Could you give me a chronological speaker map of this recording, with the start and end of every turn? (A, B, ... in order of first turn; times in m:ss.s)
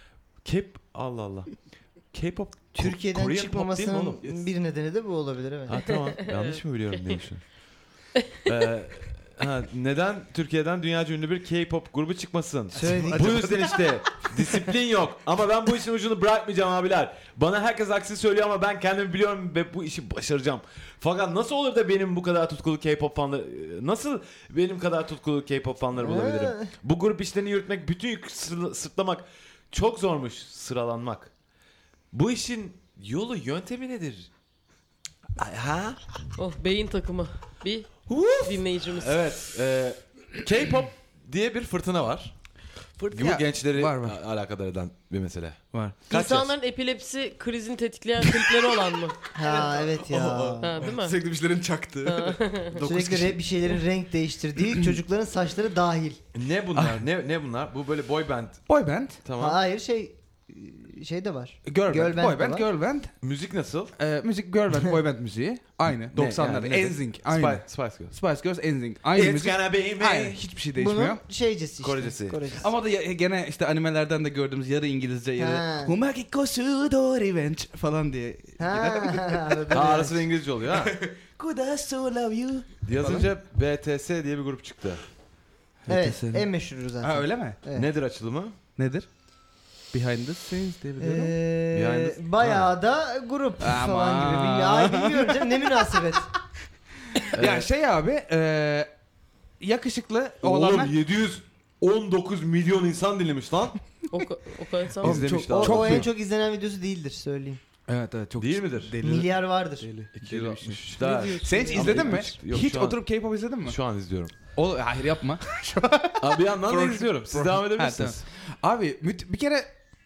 0:00.4-0:01.5 A
0:02.1-0:04.4 A
0:02.7-0:06.0 B
0:05.7-0:07.4 A
0:06.3-0:06.6 C
0:08.4-0:31.3 A
0:12.7-0:13.8 D
0:12.7-0:13.8 B
0:26.0-0:26.7 B
0:32.1-0:34.3 A
0:35.4-0:36.0 A
0:36.4-0:39.2 C
0:38.1-0:42.3 A
0:43.0-0:44.2 D
0:43.1-0:46.5 A
0:46.1-0:49.2 C
0:49.3-0:50.8 B
0:49.4-0:53.8 D
0:50.6-0:51.2 C
0:52.0-0:52.8 C
0:52.8-0:56.2 B
0:54.6-0:55.0 D
0:56.3-0:58.6 A
0:56.8-0:57.0 D
0:58.7-0:59.2 D
0:59.2-0:59.6 A
0:59.4-1:02.7 B
1:01.6-1:03.1 D
1:03.2-1:03.9 A
1:04.0-1:11.2 D
1:05.9-1:08.2 A
1:09.1-1:10.4 A
1:10.8-1:12.7 B
1:11.8-1:12.4 A
1:12.6-1:19.6 D
1:15.4-1:15.9 B
1:18.6-1:20.2 B
1:19.7-1:20.9 A
1:20.7-1:23.3 D
1:22.8-1:25.0 A
1:25.8-1:26.5 D
1:25.9-1:27.9 B
1:27.0-1:27.6 D
1:27.7-1:28.6 A
1:28.8-1:29.1 D
1:29.9-1:31.3 D
1:31.0-1:36.3 B
1:31.7-1:32.7 A
1:33.6-1:35.7 D
1:37.1-1:38.9 D
1:37.3-1:37.7 A
1:39.6-1:40.9 D
1:40.4-1:43.8 A
1:44.1-1:45.2 C
1:45.0-1:46.1 A
1:45.0-1:46.1 D
1:45.2-1:47.6 B
1:47.9-1:50.9 D
1:48.4-1:49.0 A
1:49.0-1:49.9 B
1:50.1-1:53.0 A
1:51.0-1:52.0 C
1:51.4-1:53.8 D
1:53.6-1:54.3 A
1:54.5-1:59.7 D
1:56.2-1:58.2 A